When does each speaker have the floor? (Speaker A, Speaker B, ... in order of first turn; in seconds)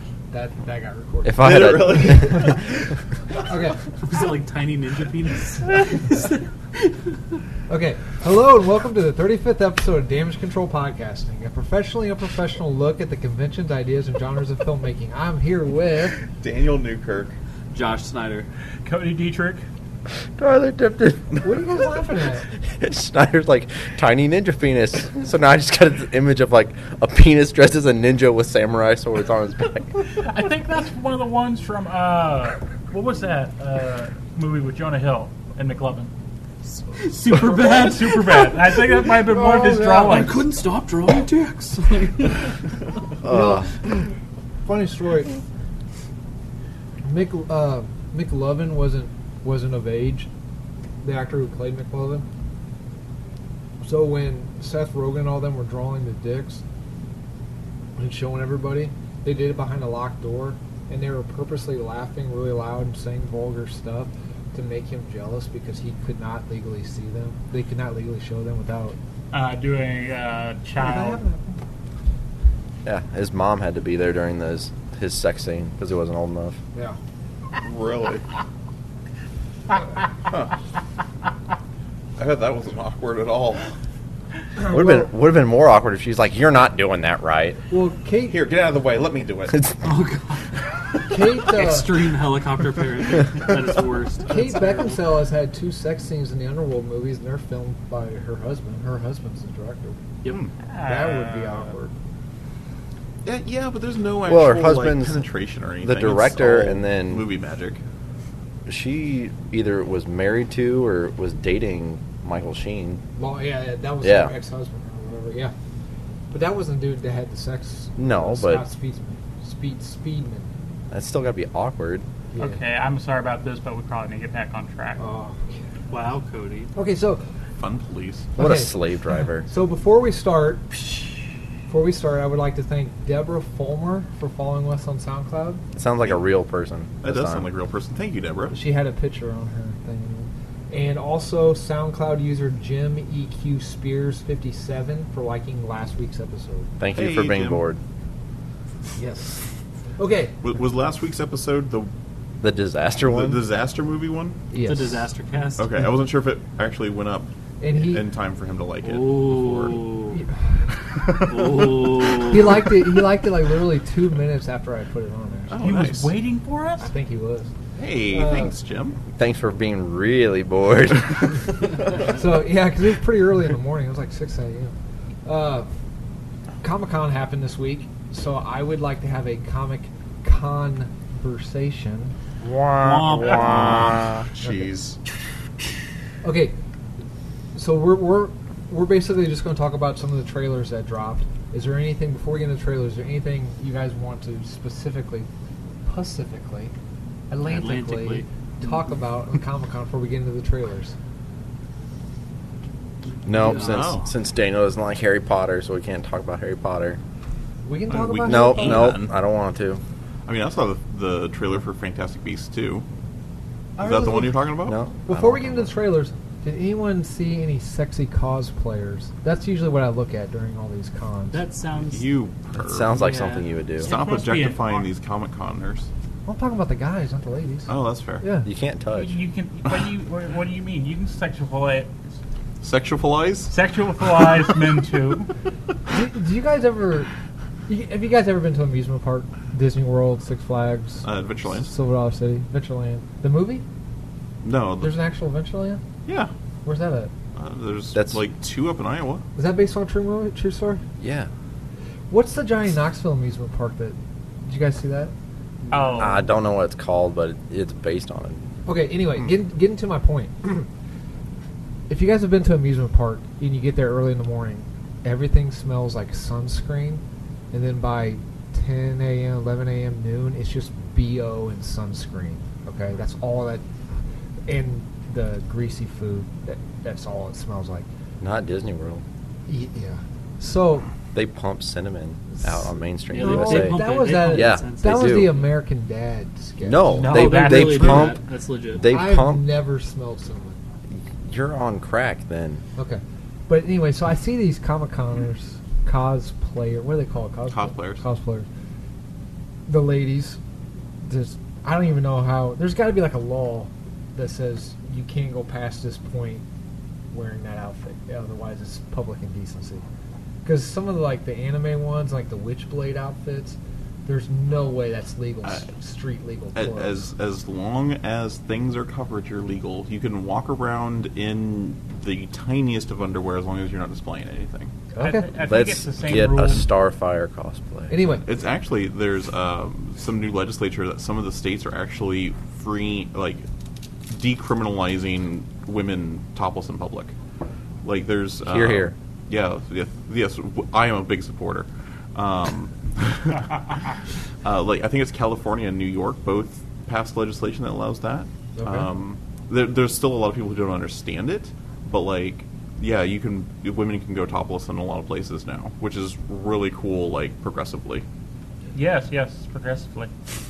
Speaker A: 0.3-2.6, 3.5-3.8, 7.7-16.2, 21.4-22.5, 39.3-40.3, 43.3-43.8, 44.7-45.3, 47.0-50.3, 51.0-52.2, 53.8-56.6, 58.0-69.0, 70.8-71.6, 84.6-85.1, 87.7-88.4, 91.1-91.9, 94.3-100.0, 100.8-101.9, 113.2-115.5, 116.3-120.5, 122.3-122.6, 125.0-125.6, 126.8-127.2, 128.4-128.8, 129.4-130.8, 131.7-135.6, 138.5-146.7, 149.0-149.5, 150.0-150.4, 154.5-155.1, 157.6-158.1, 162.2-165.6, 166.8-167.5, 168.1-168.5, 172.1-174.7, 175.2-175.7, 176.6-182.1, 186.2-186.6, 187.5-195.3, 195.8-196.7, 197.3-201.0, 207.7-209.0, 213.8-214.4, 215.1-221.4, 226.3-228.5, 235.9-237.1, 237.7-243.7, 244.8-245.8, 246.7-247.1, 249.4-250.8, 252.1-255.1, 258.6-260.7, 261.9-273.6, 274.5-277.9, 279.5-280.9, 282.3-287.2, 288.9-290.6, 292.8-298.5, 299.7-300.4, 301.0-306.4, 307.1-309.8, 310.4-317.0, 324.9-325.3, 327.9-328.2, 348.6-348.9
Speaker B: 1.2-2.9, 20.4-21.4, 22.7-30.0, 43.2-43.7, 72.8-76.6, 84.7-87.6, 104.3-105.2, 105.8-107.3, 108.7-113.0, 114.0-114.3, 118.0-118.6, 120.9-122.0, 128.4-129.5, 135.8-137.5, 146.8-147.8, 152.4-153.4, 169.2-171.7, 182.4-184.3, 203.2-207.0, 208.2-209.8, 214.7-215.7, 222.6-223.9, 228.4-229.2, 247.9-248.2, 251.0-251.3, 256.0-258.5, 278.2-279.0, 281.1-285.3, 286.6-288.2, 288.8-289.4, 290.9-292.6, 325.4-328.0, 338.4-338.9
Speaker C: 1.4-2.6, 16.4-17.4, 77.6-78.3, 82.2-83.7, 88.3-89.7, 103.2-107.8, 127.6-128.3, 137.0-138.6, 146.9-147.7, 150.4-151.9, 153.0-154.4, 155.6-160.0, 161.0-162.2, 165.5-166.2, 167.7-169.0, 183.2-185.0, 203.4-204.1, 207.9-209.1, 210.3-212.9, 213.8-214.8, 221.7-223.0, 223.8-225.9, 227.7-228.2, 232.6-233.5, 241.0-241.7, 244.4-245.0, 246.1-246.3, 247.3-249.2, 297.5-298.0, 316.6-324.7, 328.2-333.4, 334.1-337.1, 337.8-343.6, 344.4-358.1
Speaker D: 4.0-7.2, 17.7-18.5, 37.0-38.6, 40.0-42.5, 89.8-90.5, 91.2-95.0, 125.9-126.7, 154.7-155.7, 158.8-160.2, 161.2-162.7, 182.8-183.8, 197.4-198.3, 221.3-222.1, 222.9-223.5, 283.1-285.5, 287.0-288.9
Speaker E: 18.9-19.6, 30.0-36.1, 37.1-40.4, 69.3-71.2, 100.7-101.7, 122.4-125.0, 165.6-166.9, 223.8-224.9, 228.9-231.9, 233.5-235.3, 255.7-256.3, 286.9-288.1, 325.0-326.7, 358.7-360.1